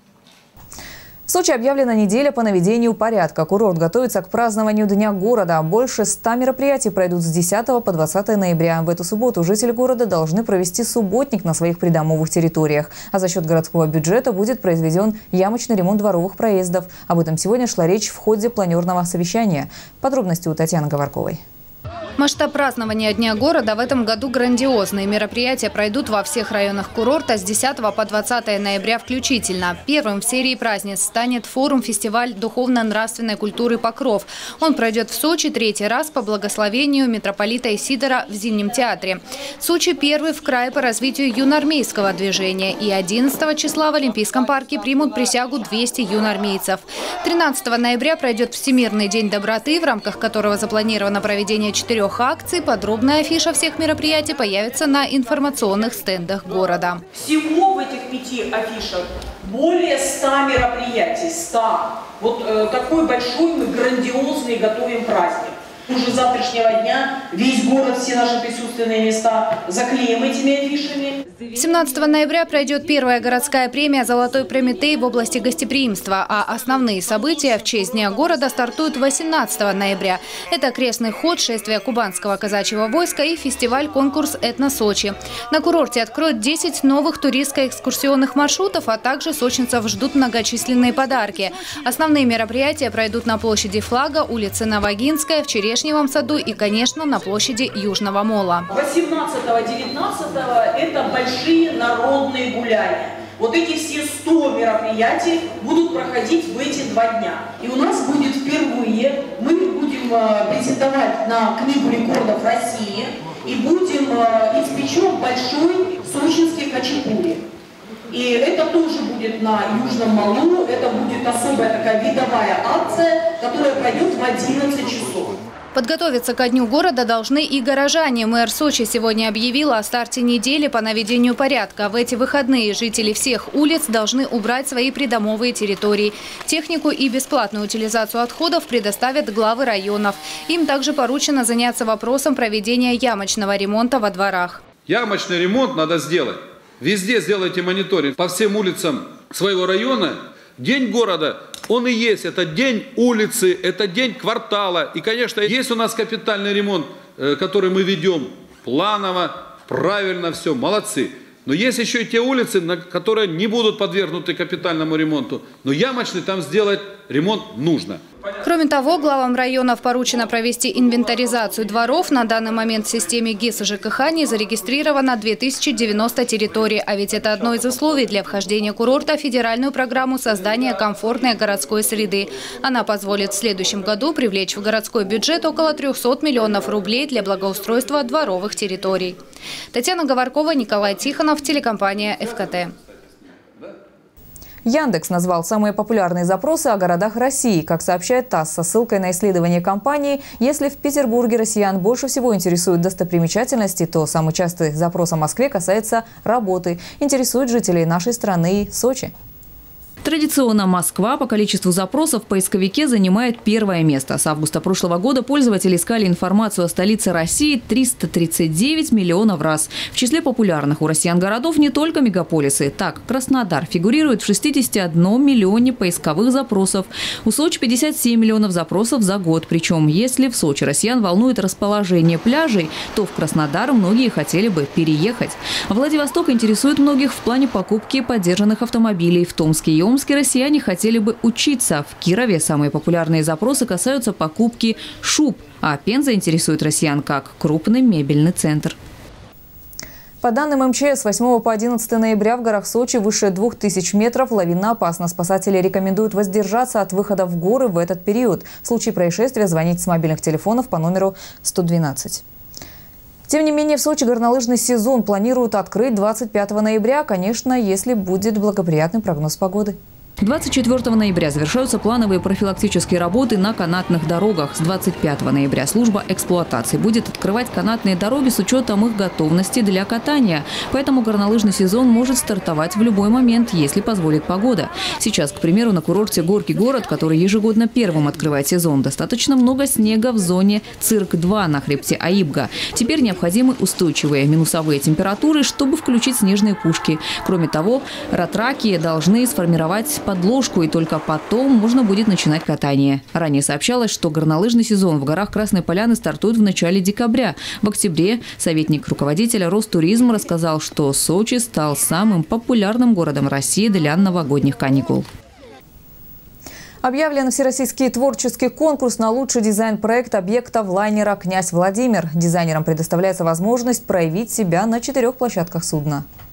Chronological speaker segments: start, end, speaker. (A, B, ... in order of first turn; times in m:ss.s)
0:01.3-0:21.4 A
0:22.2-0:57.0 B
0:57.1-1:11.2 C
1:11.5-1:38.7 B
1:38.7-1:57.4 C
1:58.1-2:05.4 C
2:05.7-2:24.6 B
2:24.9-2:48.0 D
2:48.4-3:09.2 B
3:09.7-3:12.7 B
3:14.6-3:29.1 A
3:30.0-4:08.8 E
4:10.2-4:22.2 A
4:23.3-4:29.8 A
4:30.2-5:15.1 E
5:16.8-5:26.0 A